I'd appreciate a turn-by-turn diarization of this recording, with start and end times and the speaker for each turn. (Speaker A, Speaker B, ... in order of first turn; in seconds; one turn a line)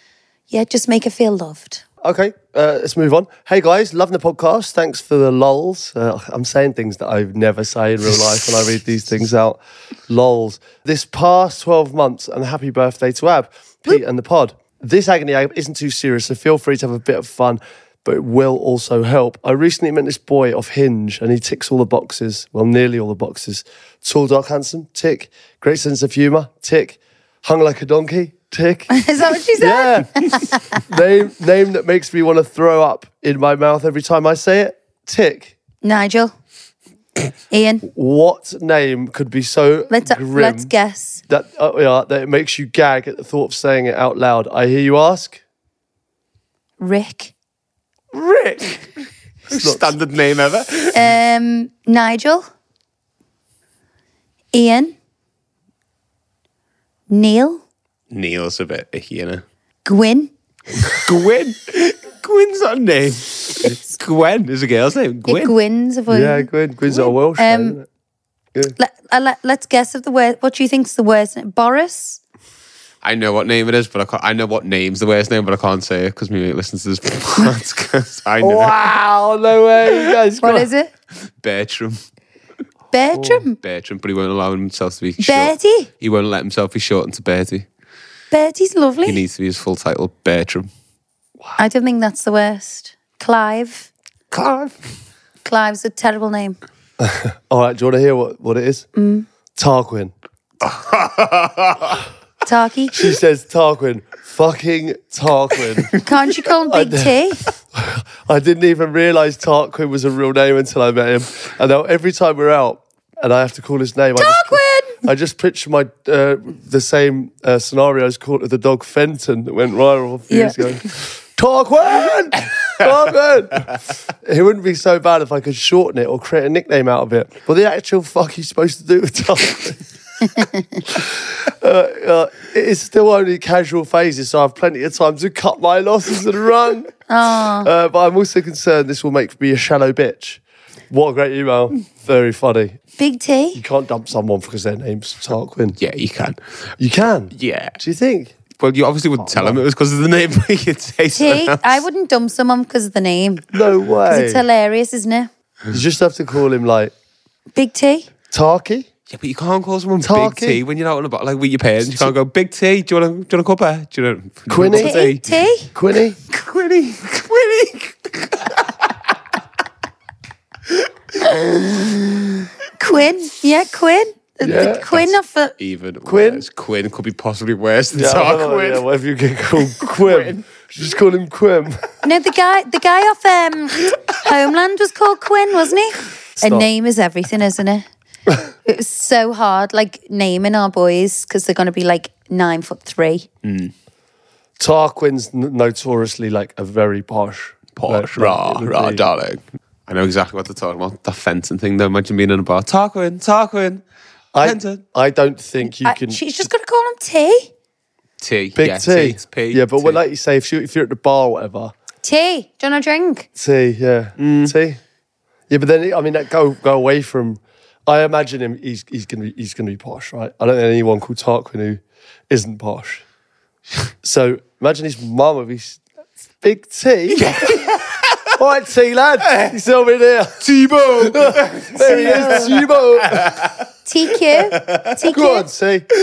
Speaker A: 0.5-1.8
Speaker B: 2.0-29.0
Speaker A: 28.9-30.8
Speaker B: 29.6-35.5
Speaker A: 35.8-36.3
Speaker A: 37.5-37.9
Speaker B: 37.9-40.7
Speaker A: 39.9-41.2
Speaker B: 41.3-45.4
Speaker A: 46.8-47.3
Speaker C: 48.3-48.6
Speaker C: 49.5-51.1
Speaker B: 49.5-49.9
Speaker A: 50.9-52.4
Speaker A: 54.5-54.9
Speaker A: 57.1-57.6
Speaker C: 58.1-59.4
Speaker A: 59.8-60.3
Speaker C: 60.9-65.5
Speaker A: 65.3-67.8
Speaker B: 66.1-67.9
Speaker A: 68.8-72.2
Speaker C: 73.0-78.8
Speaker B: 78.4-80.7
Speaker A: 80.4-80.9
Speaker C: 81.3-82.0
Speaker A: 82.9-83.6
Speaker B: 83.2-83.4
Speaker C: 83.6-87.7
Speaker A: 85.2-85.9
Speaker A: 88.3-89.2
Speaker C: 89.0-90.7
Speaker A: 91.6-93.9
Speaker C: 94.3-94.7
Speaker A: 95.4-96.6
Speaker B: 97.0-98.9
Speaker A: 99.0-99.3
Speaker B: 99.5-100.1
Speaker C: 100.6-102.0
Speaker A: 102.4-103.0
Speaker B: 102.9-106.0
Speaker A: 106.0-107.4
Speaker B: 106.7-107.2
Speaker B: 107.7-129.8
Speaker A: 114.2-115.0
Speaker A: 120.3-120.6
Speaker A: 130.3-130.8
Speaker B: 130.9-136.9
Speaker A: 137.1-137.7
Speaker B: 137.6-142.8
Speaker A: 143.0-143.6
Speaker B: 143.5-145.8
Speaker C: 145.8-146.7
Speaker B: 146.8-148.3
Speaker C: 147.3-147.8
Speaker C: 148.6-151.8
Speaker B: 149.2-149.6
Speaker A: 151.1-153.5
Speaker B: 153.5-154.4
Speaker A: 154.1-155.3
Speaker B: 155.7-156.9
Speaker A: 157.5-158.1
Speaker B: 158.3-158.9
Speaker C: 159.1-165.2
Speaker B: 160.0-160.6
Speaker B: 164.5-165.1
Speaker A: 164.8-165.7
Speaker B: 165.7-166.2
Speaker C: 166.3-168.9
Speaker A: 171.4-175.5
Speaker B: 174.4-174.9
Speaker C: 175.6-178.8
Speaker B: 176.0-176.4
Speaker B: 177.9-181.9
Speaker C: 179.6-180.4
Speaker A: 182.0-187.8
Speaker B: 186.4-186.7
Speaker A: 188.6-193.3
Speaker C: 193.4-193.7
Speaker B: 194.6-199.0
Speaker C: 197.8-203.8
Speaker B: 204.3-206.5
Speaker C: 204.4-204.8
Speaker A: 205.7-207.5
Speaker C: 208.2-210.0
Speaker B: 208.6-211.7
Speaker A: 212.0-213.3
Speaker B: 213.3-214.8
Speaker C: 214.2-214.5
Speaker B: 215.5-223.0
Speaker B: 224.0-225.8
Speaker B: 226.4-227.6
Speaker C: 227.1-228.3
Speaker B: 228.3-233.3
Speaker C: 230.4-233.7
Speaker A: 231.9-232.4
Speaker A: 233.8-235.5
Speaker C: 234.5-234.9
Speaker B: 235.1-235.9